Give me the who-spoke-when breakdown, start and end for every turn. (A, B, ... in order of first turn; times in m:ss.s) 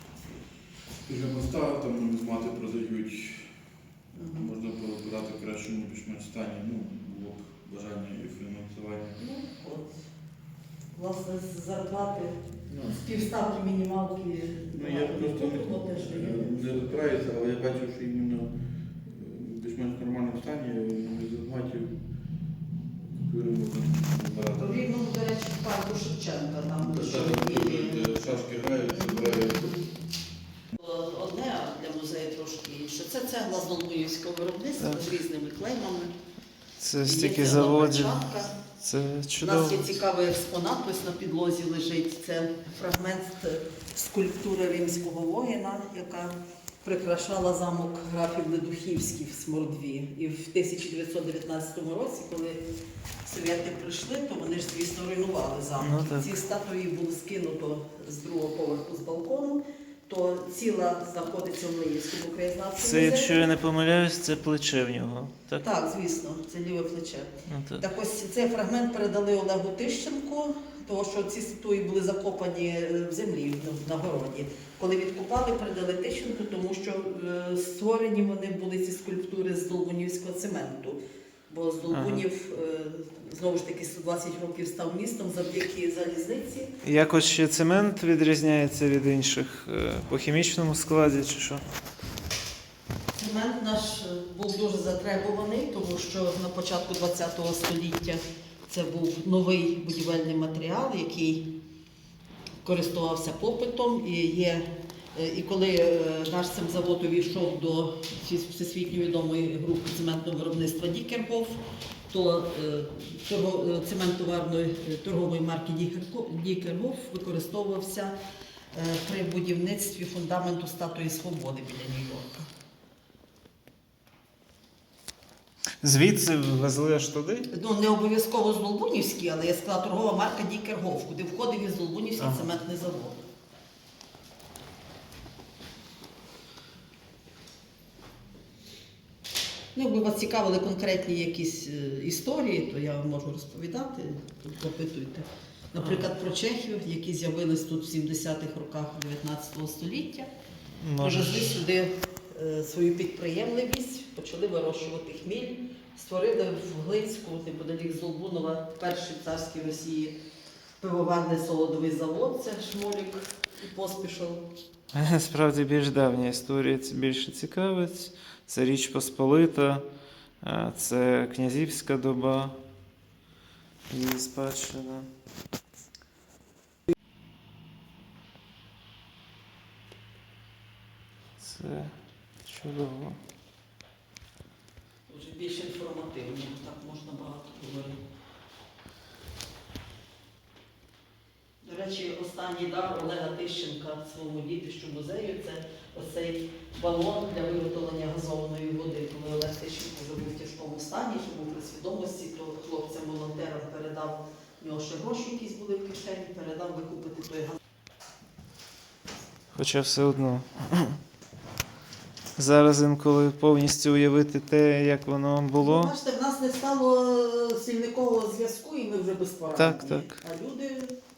0:01.0-0:03.5 A
0:04.1-0:04.5 B
0:04.2-0:09.2 A
0:09.2-0:10.0 B
0:10.9-0:16.9 B
0:12.7-0:13.0 A
0:14.7-0:18.5 A
0:19.0-0:21.9 A
0:23.0-0:24.8 A
0:24.6-0:28.1 B
0:26.8-0:29.9 A
0:29.1-0:29.7 B
0:30.7-0:36.1 B
0:36.8-0:39.9 C
0:37.0-0:38.6 B
0:39.4-0:52.6 B
0:53.2-1:03.5 B
0:55.8-0:56.3 C
1:02.8-1:05.6 C
1:05.6-1:26.7 B
1:07.5-1:07.8 C
1:21.9-1:22.2 C
1:26.8-1:31.6 C
1:33.1-1:41.5 B
1:42.6-1:58.2 B
1:58.7-2:02.5 B
2:05.8-2:07.5 C
2:07.5-2:13.2 B
2:12.2-2:12.5 C
2:19.7-2:30.3 B
2:25.8-2:26.1 C
2:30.7-2:31.6 C
2:31.0-2:40.2 B
2:40.8-2:44.4 B
2:44.9-2:49.8 C
2:50.4-2:52.6 C
2:53.9-2:55.1 C
3:01.4-3:03.2 C
3:05.1-3:08.0 B
3:11.6-3:27.6 B
3:29.5-3:31.0 C
3:32.4-3:35.9 C
3:35.6-3:41.0 B
3:39.6-3:40.2 C